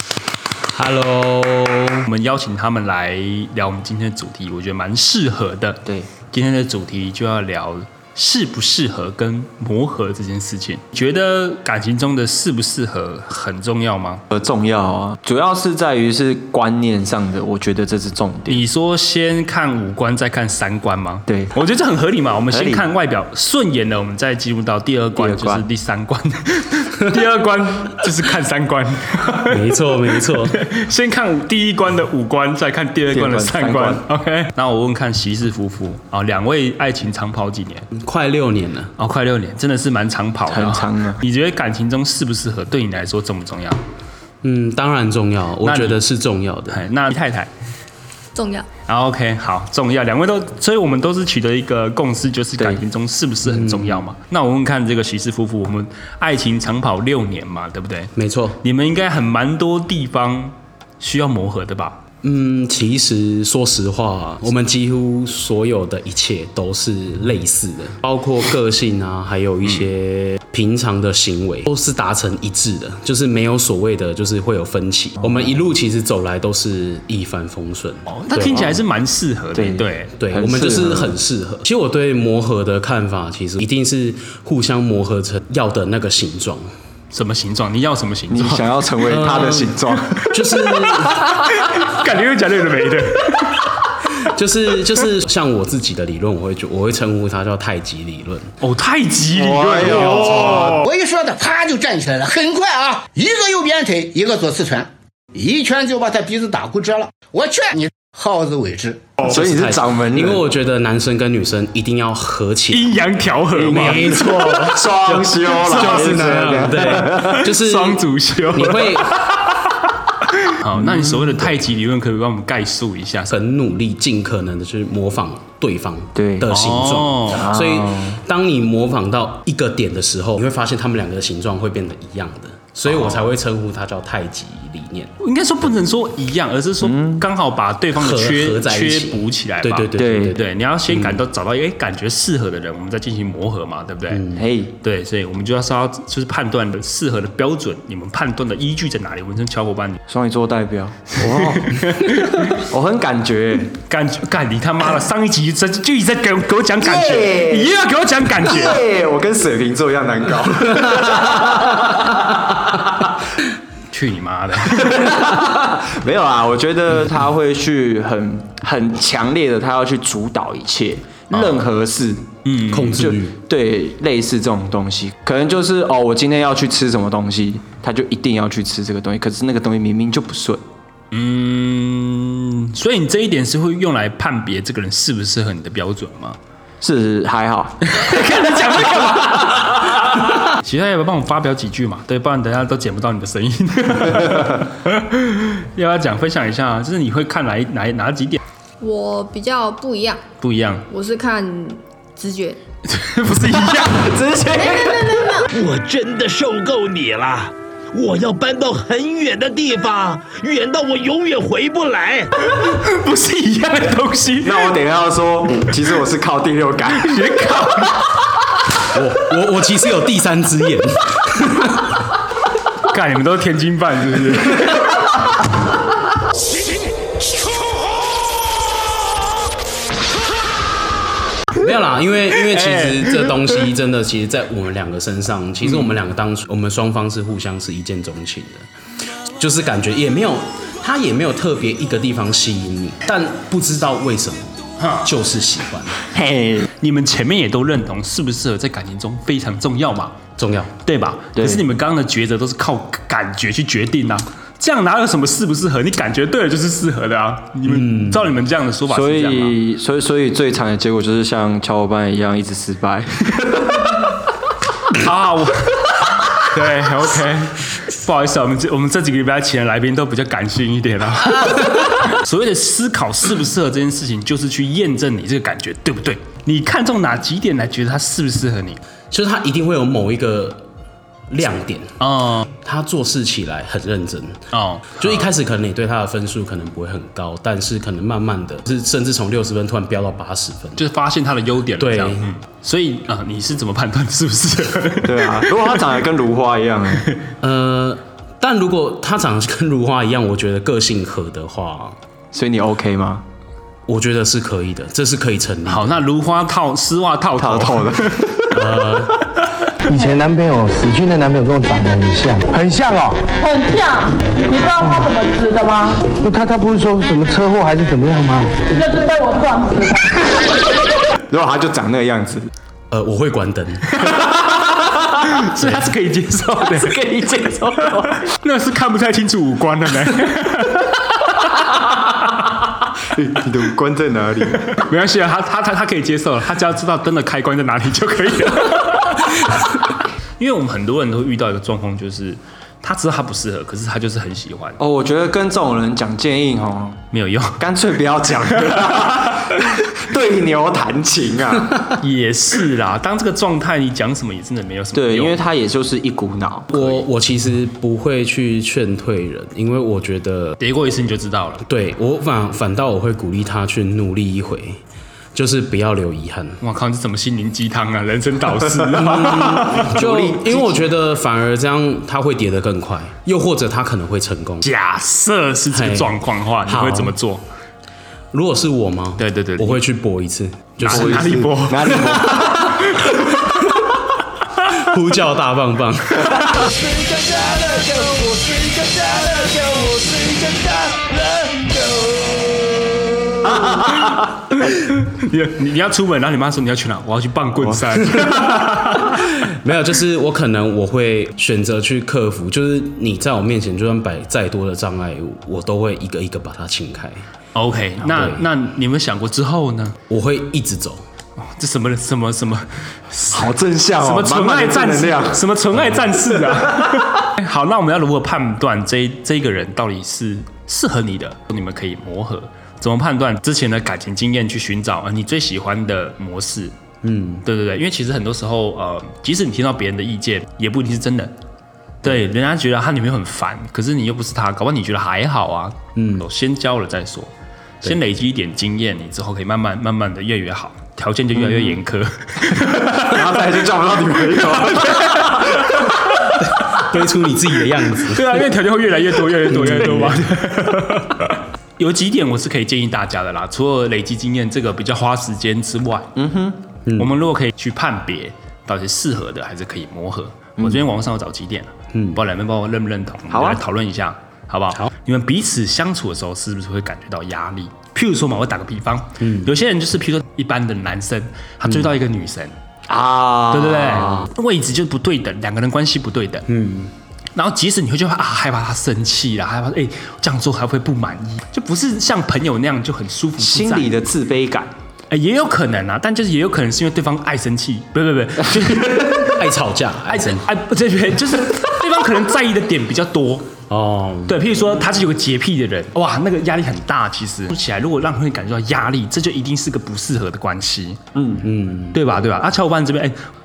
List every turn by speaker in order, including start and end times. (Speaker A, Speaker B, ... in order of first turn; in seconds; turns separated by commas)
Speaker A: 0.7-2.1, Speaker B: 2.0-14.2, Speaker C: 14.3-18.6, Speaker B: 18.5-29.6, Speaker C: 21.3-21.6, Speaker C: 22.5-22.9, Speaker C: 25.1-25.6, Speaker A: 29.5-30.6, Speaker B: 30.2-37.9, Speaker C: 33.1-34.0, Speaker A: 37.9-38.9, Speaker B: 39.0-43.8, Speaker C: 40.5-41.2, Speaker A: 44.4-46.9, Speaker B: 45.6-46.0, Speaker B: 46.7-47.5, Speaker D: 48.3-48.7, Speaker B: 48.9-62.0, Speaker A: 53.4-54.0, Speaker A: 58.1-58.6, Speaker A: 62.2-78.8, Speaker B: 78.1-80.1, Speaker C: 79.5-81.2, Speaker A: 80.2-86.7, Speaker B: 87.1-88.7, Speaker C: 88.3-90.1, Speaker A: 89.0-91.2, Speaker B: 90.1-93.8, Speaker A: 94.2-98.5, Speaker B: 98.6-100.8, Speaker C: 99.3-100.8, Speaker A: 100.1-100.7, Speaker E: 100.8-109.0, Speaker C: 109.2-110.4, Speaker A: 109.2-113.0, Speaker B: 112.7-114.7, Speaker C: 113.5-117.4, Speaker A: 113.6-119.2, Speaker B: 115.7-119.6, Speaker B: 120.5-123.3, Speaker C: 120.9-121.3, Speaker A: 123.3-135.1, Speaker C: 126.1-126.5, Speaker B: 126.5-127.5, Speaker C: 127.4-128.2, Speaker B: 132.8-133.3, Speaker B: 135.2-144.2, Speaker C: 136.8-137.2, Speaker A: 137.9-141.2, Speaker C: 140.0-140.4, Speaker A: 144.1-144.4, Speaker C: 144.3-144.7, Speaker B: 144.8-150.0, Speaker C: 150.1-151.8, Speaker B: 151.2-152.6, Speaker C: 152.4-153.7, Speaker B: 153.8-158.8, Speaker C: 156.8-157.7, Speaker C: 158.4-163.1, Speaker B: 163.9-165.2, Speaker C: 164.7-172.2, Speaker B: 171.3-171.7, Speaker B: 172.4-173.1, Speaker A: 172.7-173.4, Speaker C: 172.9-180.6, Speaker B: 181.1-186.4, Speaker C: 186.8-187.8, Speaker B: 187.8-198.4, Speaker D: 198.8-200.2, Speaker B: 200.4-200.8, Speaker D: 200.9-202.6, Speaker B: 202.8-204.1, Speaker C: 203.6-205.4, Speaker D: 204.5-205.5, Speaker F: 205.5-212.3, Speaker B: 212.4-214.8, Speaker C: 214.4-217.2, Speaker B: 216.9-218.2, Speaker A: 218.9-221.9, Speaker B: 222.8-225.1, Speaker A: 231.5-238.7, Speaker B: 232.4-233.3, Speaker A: 239.3-246.0, Speaker B: 244.8-245.1, Speaker C: 246.1-246.7, Speaker B: 246.8-250.2, Speaker A: 250.4-250.7, Speaker B: 250.8-259.6, Speaker C: 251.3-251.7, Speaker A: 257.6-258.3, Speaker C: 258.9-263.9, Speaker B: 264.9-278.8, Speaker A: 279.1-280.6, Speaker A: 281.3-284.4, Speaker B: 282.0-282.5, Speaker B: 284.5-285.3, Speaker A: 285.0-290.8, Speaker B: 290.8-295.8, Speaker A: 291.8-292.3, Speaker C: 295.0-297.0, Speaker A: 297.4-302.0, Speaker C: 302.3-303.2, Speaker A: 303.9-305.9, Speaker B: 305.6-308.5, Speaker C: 307.4-308.5, Speaker A: 308.5-309.1, Speaker G: 309.9-313.3, Speaker H: 313.3-316.1, Speaker G: 316.1-318.6, Speaker H: 318.6-320.4, Speaker C: 321.1-322.5, Speaker A: 322.9-323.9, Speaker B: 323.9-331.7, Speaker C: 324.1-324.9, Speaker C: 326.7-328.2, Speaker C: 333.1-334.6, Speaker B: 334.6-344.8, Speaker C: 344.8-347.0, Speaker B: 347.1-347.6, Speaker C: 347.6-352.0, Speaker B: 351.9-355.4, Speaker C: 354.9-356.7, Speaker A: 356.7-360.6, Speaker B: 356.7-357.0, Speaker B: 360.6-361.6, Speaker A: 361.7-364.8, Speaker A: 365.3-366.6, Speaker B: 366.6-369.9, Speaker A: 368.9-374.7, Speaker C: 369.8-370.9, Speaker B: 374.6-377.4, Speaker A: 375.7-377.1, Speaker A: 378.3-381.4, Speaker B: 379.2-379.8, Speaker B: 380.8-383.8, Speaker C: 380.9-382.8, Speaker A: 384.8-386.7, Speaker C: 387.6-388.6, Speaker B: 393.5-399.3, Speaker A: 399.0-407.2, Speaker B: 407.5-410.0, Speaker A: 408.0-408.5, Speaker A: 410.1-411.0, Speaker B: 411.4-426.7, Speaker C: 413.3-415.5, Speaker C: 416.0-417.0, Speaker A: 427.0-427.4, Speaker B: 427.4-431.3, Speaker B: 432.0-443.2, Speaker A: 435.9-436.2, Speaker C: 441.4-441.8, Speaker C: 442.8-445.8, Speaker B: 444.5-446.8, Speaker A: 446.6-448.4, Speaker B: 448.0-456.1, Speaker A: 449.4-450.2, Speaker C: 456.1-456.6, Speaker A: 456.9-457.1, Speaker B: 456.9-472.5, Speaker C: 460.6-460.8, Speaker A: 461.9-462.2, Speaker C: 463.3-463.6, Speaker A: 469.2-469.5, Speaker A: 471.6-471.9, Speaker C: 472.9-474.3, Speaker B: 473.5-476.4, Speaker A: 476.5-476.9, Speaker B: 477.3-483.9, Speaker C: 483.4-484.7, Speaker B: 485.1-489.4, Speaker A: 489.2-490.5, Speaker B: 490.1-493.5, Speaker A: 493.7-494.5, Speaker B: 494.3-501.0, Speaker C: 501.1-501.5, Speaker A: 501.4-502.0, Speaker B: 501.9-503.1